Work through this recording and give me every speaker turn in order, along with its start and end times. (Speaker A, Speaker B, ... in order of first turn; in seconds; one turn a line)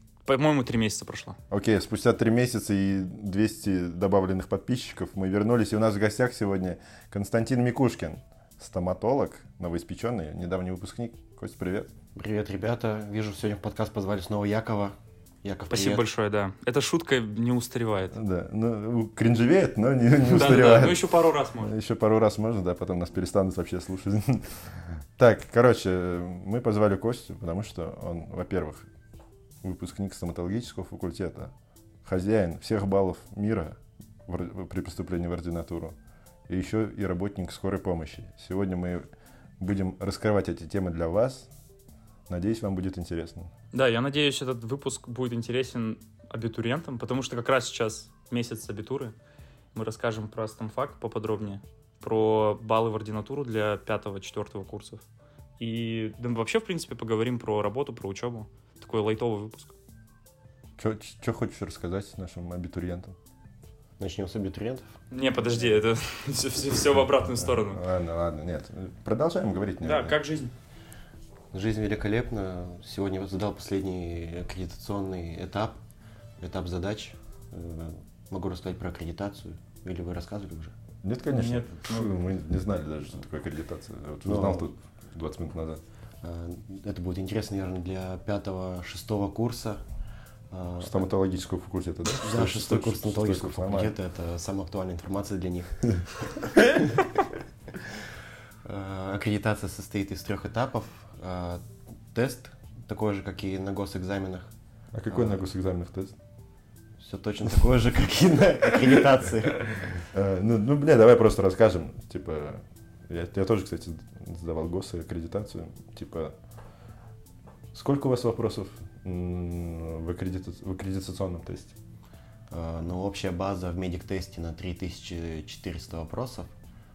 Speaker A: 0.2-1.4
Speaker B: 1.5-11.9
Speaker C: 12.2-16.1
Speaker A: 15.7-18.1
Speaker B: 18.1-21.1
Speaker A: 20.2-21.7
Speaker B: 21.6-24.7
Speaker B: 25.2-28.9
Speaker B: 29.6-31.5
Speaker B: 32.0-36.0
Speaker B: 36.5-39.1
Speaker B: 39.6-41.5
Speaker B: 42.3-43.5
Speaker A: 43.7-49.1
Speaker A: 49.8-55.0
Speaker A: 55.6-59.7
Speaker B: 60.8-63.2
Speaker C: 64.0-64.9
Speaker A: 65.1-67.8
Speaker B: 67.4-70.2
Speaker A: 69.8-70.5
Speaker C: 71.5-75.8
Speaker C: 76.4-80.7
Speaker B: 81.0-85.8
Speaker A: 81.3-82.2
Speaker C: 84.2-84.7
Speaker C: 86.2-89.8
Speaker C: 90.5-91.0
Speaker B: 90.8-93.9
Speaker C: 92.1-95.9
Speaker C: 96.4-97.1
Speaker C: 98.7-104.5
Speaker B: 104.9-106.2
Speaker C: 105.1-105.5
Speaker C: 107.0-109.9
Speaker B: 110.0-116.3
Speaker B: 117.7-121.8
Speaker C: 122.5-126.5